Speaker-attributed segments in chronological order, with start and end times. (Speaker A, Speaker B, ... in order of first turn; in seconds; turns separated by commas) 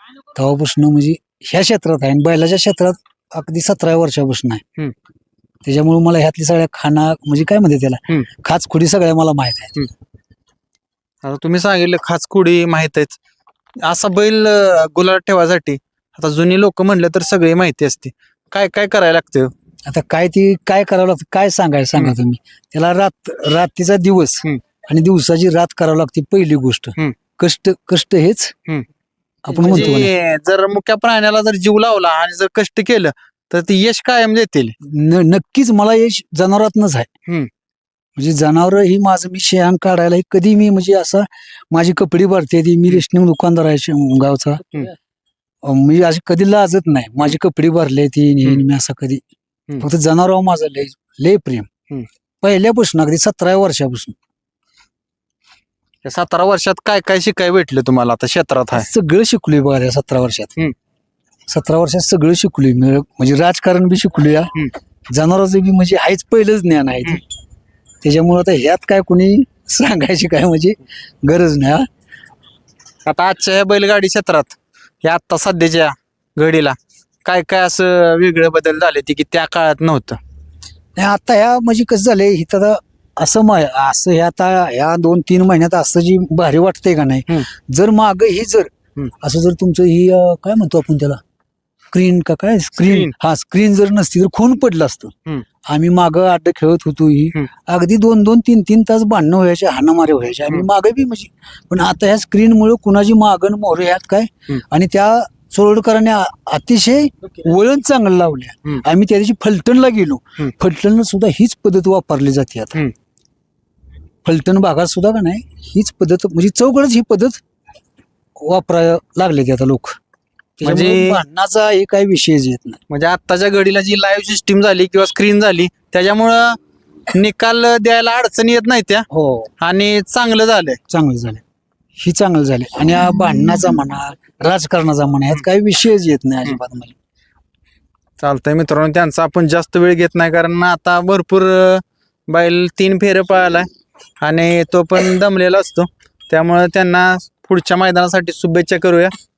Speaker A: 0.3-4.6, Speaker A: 5.6-9.8, Speaker B: 11.2-13.2, Speaker B: 13.8-19.5, Speaker A: 19.9-28.5, Speaker A: 29.4-30.1, Speaker B: 29.6-34.7, Speaker A: 34.8-37.1, Speaker A: 38.1-44.6, Speaker A: 45.6-49.2, Speaker A: 49.8-51.7, Speaker A: 52.4-54.1, Speaker B: 56.0-58.9, Speaker A: 58.7-60.5, Speaker A: 61.5-64.5, Speaker A: 65.1-67.2, Speaker A: 68.0-71.9, Speaker B: 73.0-80.2, Speaker A: 81.0-91.2, Speaker A: 91.9-95.1, Speaker B: 92.8-93.1, Speaker A: 95.7-112.8, Speaker A: 114.2-117.4, Speaker A: 118.4-120.0, Speaker A: 120.6-122.8, Speaker B: 120.6-121.2, Speaker B: 122.9-126.6, Speaker B: 127.1-129.1, Speaker A: 129.1-129.5, Speaker B: 129.6-130.8, Speaker A: 130.9-131.4, Speaker A: 132.0-136.9, Speaker B: 138.2-143.7, Speaker B: 144.2-149.1